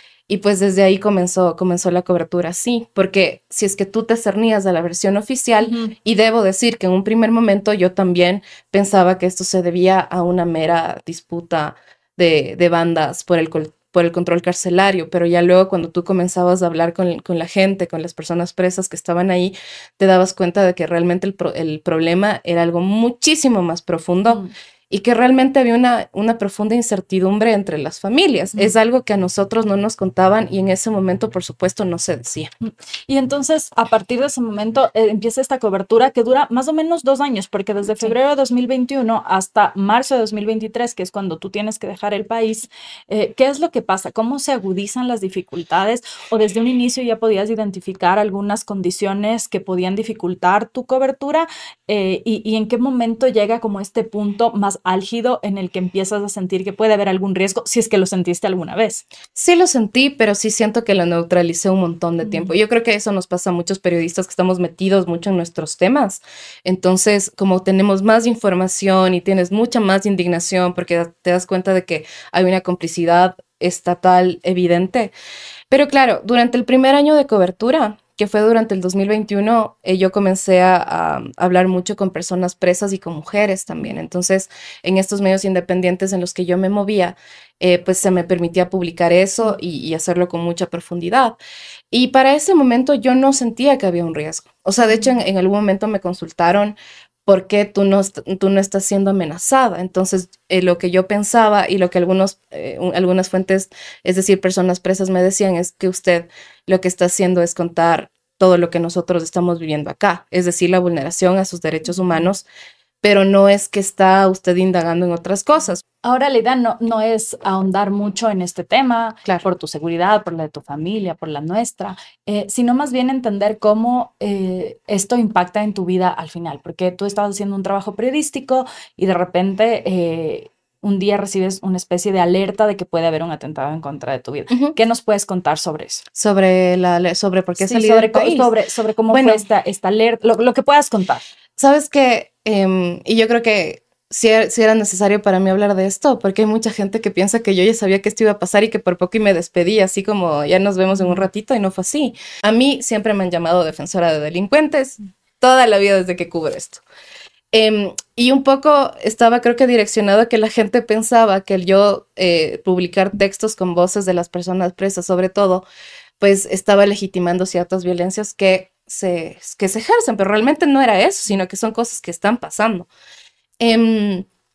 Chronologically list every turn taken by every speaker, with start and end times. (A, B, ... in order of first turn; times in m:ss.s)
0:00.3-0:32.5 A
0:05.6-0:06.0 B
0:32.6-0:59.1 B
0:59.4-1:15.1 A
1:02.2-1:02.5 B
1:15.7-1:31.4 A
1:31.9-1:52.4 A
1:34.8-1:35.2 B
1:53.0-1:55.8 A
1:56.0-2:16.0 B
2:14.5-2:14.8 A
2:16.2-2:18.5 A
2:17.6-2:21.2 B
2:19.1-2:19.4 A
2:21.6-2:36.8 A
2:30.9-2:31.2 B
2:37.5-2:45.7 A
2:46.2-2:52.9 A
2:53.6-2:54.3 A